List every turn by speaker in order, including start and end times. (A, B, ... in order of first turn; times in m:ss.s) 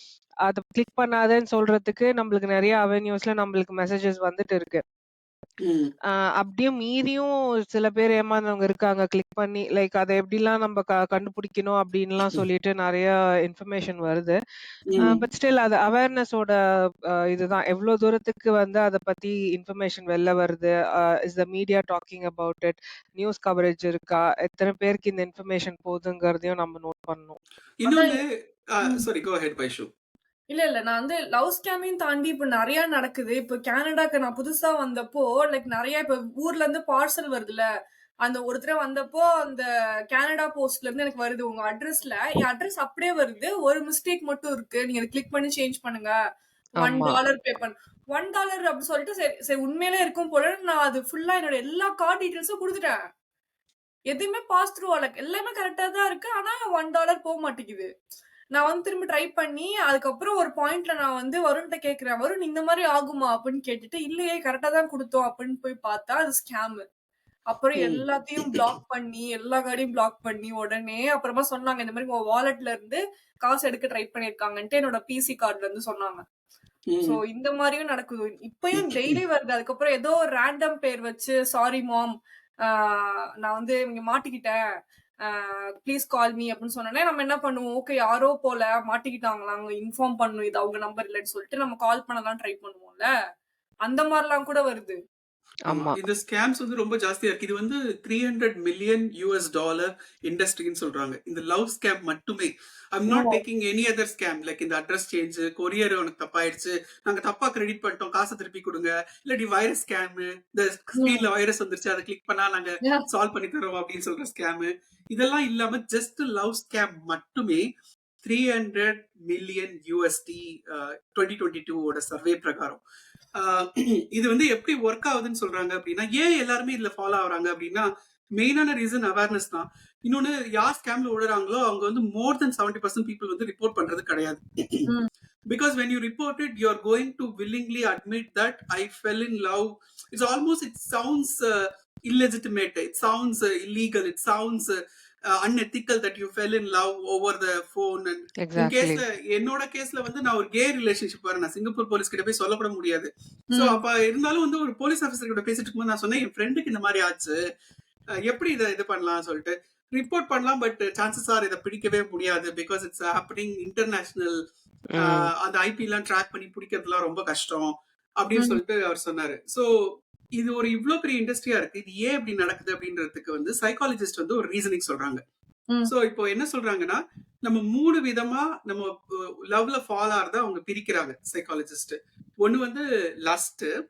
0:00.4-0:04.8 A
0:05.6-0:05.9 B
0:06.1-0:14.4 A
0:14.9-0:15.2 B
0:15.0-0:27.4 A
0:27.8-0:29.9 B
0:27.9-0:28.2 C
0:30.5-0:37.6 C
0:38.2-0:46.1 C
0:46.8-0:47.2 A
0:46.8-0:53.0 C
0:54.1-0:57.9 C
0:58.5-1:06.8 C
1:07.5-1:16.2 C
1:07.8-1:08.6 B
1:16.9-1:17.2 B
1:17.0-1:22.1 C
1:18.8-1:19.2 B
1:22.6-1:24.6 C
1:25.2-1:33.1 C
1:33.8-1:35.0 C
1:35.7-1:36.0 A
1:35.7-1:57.6 B
1:43.1-1:43.4 C
1:51.0-1:51.2 C
1:58.2-2:02.8 B
2:03.4-2:07.9 B
2:08.4-2:14.9 B
2:15.5-2:24.7 B
2:25.3-2:37.4 B
2:28.4-2:29.0 A
2:33.5-2:33.8 C
2:38.3-2:44.4 B
2:44.9-2:45.3 A
2:45.0-2:49.7 B
2:50.4-2:55.2 B
2:55.8-3:03.7 B